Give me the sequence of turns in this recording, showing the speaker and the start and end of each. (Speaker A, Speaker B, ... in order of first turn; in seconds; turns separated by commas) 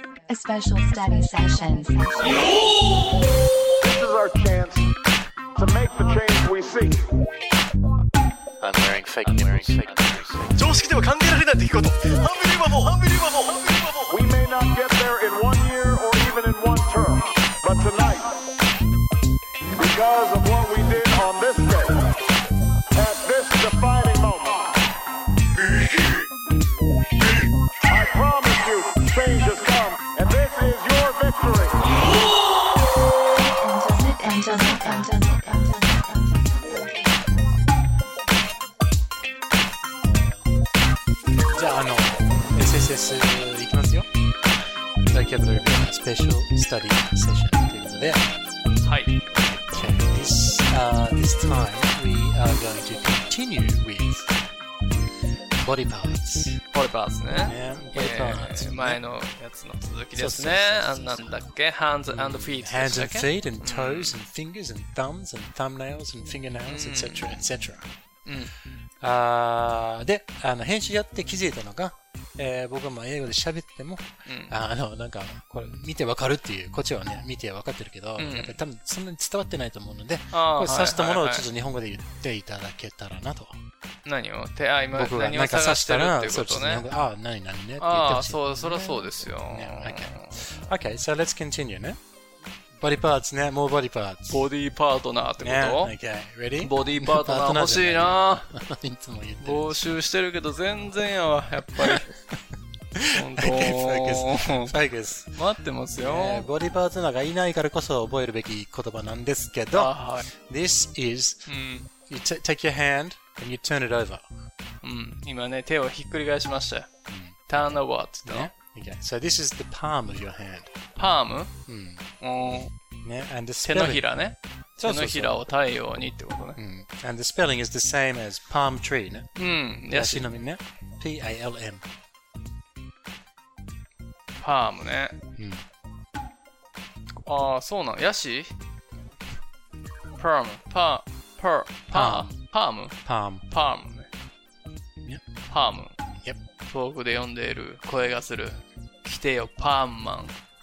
Speaker A: 0.2-2.5, Speaker B: 3.8-4.9, Speaker B: 5.5-7.0, Speaker C: 8.6-10.5, Speaker D: 8.6-14.1, Speaker B: 14.1-18.4, Speaker B: 19.8-22.1, Speaker B: 22.9-24.7, Speaker B: 27.8-31.9, Speaker A: 33.4-37.6, Speaker C: 40.0-40.5, Speaker C: 41.5-44.1, Speaker C: 45.1-48.3, Speaker E: 48.8-49.2, Speaker C: 49.3-54.3, Speaker C: 55.6-56.6, Speaker E: 56.7-64.2, Speaker C: 57.4-59.0, Speaker C: 60.1-61.4, Speaker C: 62.0-67.9, Speaker E: 66.7-67.5, Speaker E: 68.2-68.5, Speaker C: 69.0-83.6, Speaker E: 74.2-74.5, Speaker E: 78.2-78.6, Speaker E: 80.3-81.5, Speaker E: 84.0-86.9, Speaker C: 84.9-92.0, Speaker E: 87.8-90.4, Speaker C: 92.8-94.5, Speaker E: 94.3-95.9, Speaker C: 95.4-99.8, Speaker E: 96.6-98.5, Speaker E: 99.4-102.1, Speaker C: 103.0-105.4, Speaker E: 103.1-104.7, Speaker E: 105.3-106.5, Speaker C: 106.0-111.5, Speaker E: 109.7-110.3, Speaker E: 111.5-111.9, Speaker C: 112.0-114.2, Speaker E: 114.8-116.9, Speaker C: 117.1-120.7, Speaker E: 117.5-118.5, Speaker E: 121.0-121.5, Speaker C: 121.7-124.0, Speaker E: 122.2-122.7, Speaker E: 123.6-126.6, Speaker C: 124.8-125.4, Speaker C: 126.5-129.3, Speaker E: 129.3-130.3, Speaker C: 129.9-131.8, Speaker E: 134.4-135.2, Speaker C: 135.3-135.6, Speaker E: 137.2-138.5, Speaker E: 140.2-144.1, Speaker C: 141.9-142.4, Speaker C: 143.0-143.4, Speaker E: 145.5-145.9, Speaker E: 146.7-150.3